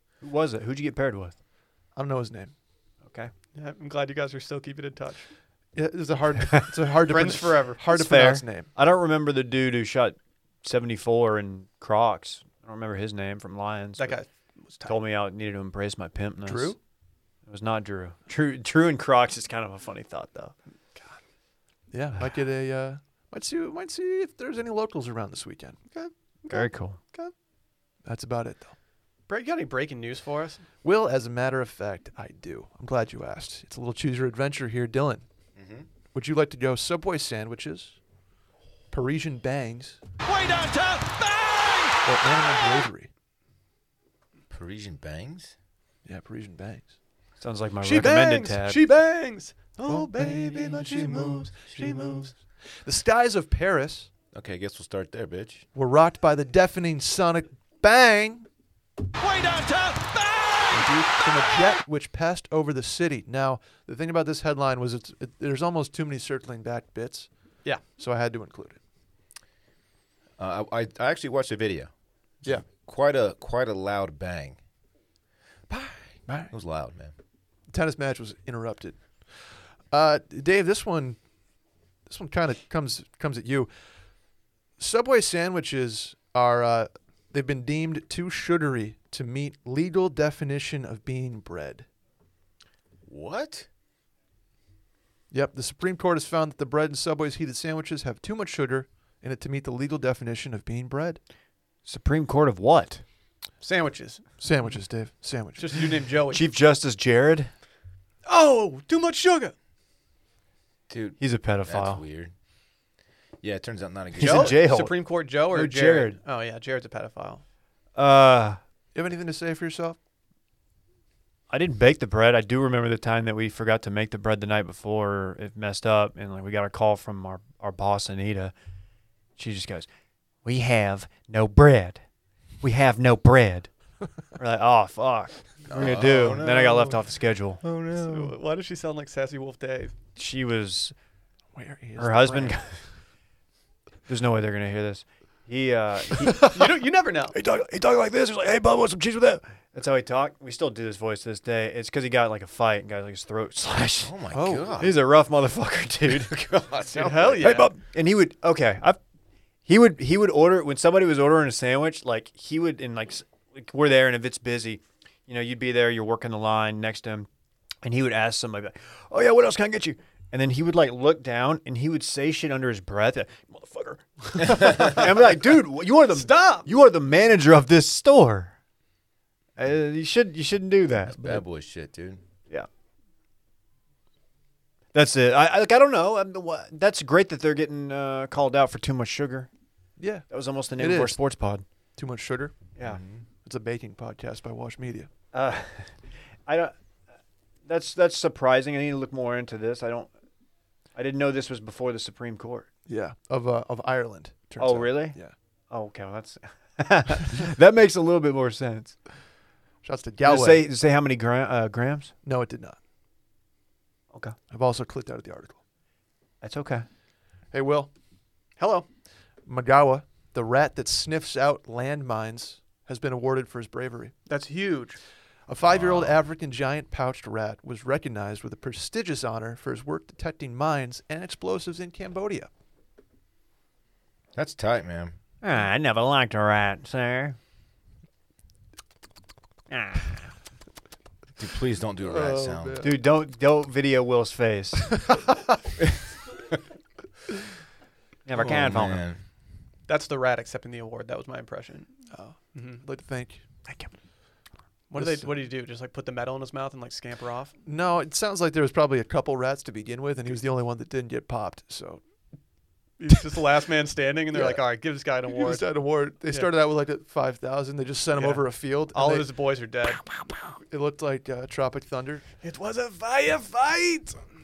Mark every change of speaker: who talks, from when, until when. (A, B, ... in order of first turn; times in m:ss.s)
0:00.2-0:01.4 A
0:01.9-0:02.5 B
0:03.0-0:03.3 A
0:03.5-0:05.3 C
0:05.7-0:08.7 B
0:07.1-0:07.8 C
0:07.9-0:14.2 A
0:14.0-0:14.9 C
0:14.8-0:16.8 A
0:16.4-0:16.8 B
0:17.5-0:20.5 A
0:20.9-0:21.2 C
0:21.9-0:25.8 B
0:25.9-0:27.3 C
0:26.5-0:27.0 A
0:28.0-0:28.7 B
0:29.3-0:30.6 C
0:30.8-0:35.2 B
0:35.6-0:35.8 D
0:36.1-0:38.0 B
0:38.9-0:40.0 B
0:40.4-0:41.0 C
0:42.0-0:43.1 B
0:44.5-0:45.5 D
0:46.0-0:46.9 B
0:47.4-0:48.8 A
0:47.8-0:52.3 C
0:49.8-0:54.1 B
0:54.3-0:55.6 D
0:55.7-0:58.5 B
0:59.2-1:00.0 C
1:00.7-1:07.3 B
1:08.0-1:08.8 B
1:10.4-1:11.9 D
1:12.6-1:14.6 D
1:15.7-1:17.1 D
1:16.3-1:16.5 B
1:17.7-1:21.2 B
1:22.1-1:23.7 B
1:24.8-1:31.8 B
1:33.1-1:33.7 D
1:35.3-1:41.2 B
1:41.8-1:43.0 A
1:43.6-1:44.2 C
1:44.4-1:45.9 B
1:45.6-1:46.4 C
1:46.3-1:47.5 A
1:48.2-1:49.5 C
1:50.9-1:52.3 D
1:51.2-1:52.0 A
1:53.4-1:54.6 D
1:54.2-1:56.2 A
1:54.2-1:57.4 C
1:57.9-1:58.6 A
1:58.9-2:00.0 B
2:01.5-2:08.5 A
2:09.4-2:09.9 A
2:10.4-2:12.0 A
2:12.6-2:13.7 A
2:14.4-2:17.6 A
2:15.7-2:17.0 D
2:17.6-2:18.3 D
2:17.9-2:19.9 C
2:20.2-2:20.9 A
2:21.5-2:22.6 B
2:22.0-2:22.7 A
2:24.1-2:26.6 A
2:26.5-2:27.4 C
2:27.3-2:34.2 A
2:34.0-2:35.0 D
2:34.3-2:34.8 B
2:34.8-2:36.4 A
2:36.2-2:37.5 D
2:36.9-2:37.7 C
2:37.4-2:39.0 A
2:39.6-2:47.3 A
2:47.8-2:58.5 A
2:56.1-2:56.7 C
2:59.6-3:01.4 A
3:01.1-3:02.2 D
3:04.9-3:09.5 A
3:10.0-3:11.2 B
3:10.3-3:11.6 A
3:12.0-3:12.6 B
3:12.8-3:13.2 D
3:13.4-3:15.1 B
3:15.3-3:16.7 A
3:17.6-3:20.1 A
3:20.9-3:22.7 A
3:22.9-3:25.3 B
3:24.6-3:29.0 A
3:29.8-3:30.6 B
3:30.2-3:32.1 A
3:32.2-3:32.8 B
3:34.5-3:35.6 B
3:36.4-3:36.8 A
3:37.5-3:37.9 B
3:38.6-3:38.9 C
3:39.4-3:44.1 B
3:44.3-3:45.0 C
3:45.5-3:52.5 B
3:45.6-3:46.2 D
3:54.3-3:55.1 D
3:55.4-3:57.4 A
3:59.7-4:00.2 A
4:01.4-4:02.8 D
4:02.0-4:02.9 B
4:02.8-4:05.2 A
4:08.2-4:09.0 A
4:08.4-4:09.2 D
4:09.9-4:11.9 C
4:12.1-4:13.4 B
4:12.5-4:12.8 C
4:14.9-4:17.6 C
4:15.0-4:15.4 B
4:17.6-4:22.0 B
4:23.0-4:25.7 C
4:25.3-4:29.3 B
4:28.2-4:30.0 C
4:30.0-4:32.2 B
4:32.4-4:34.3 C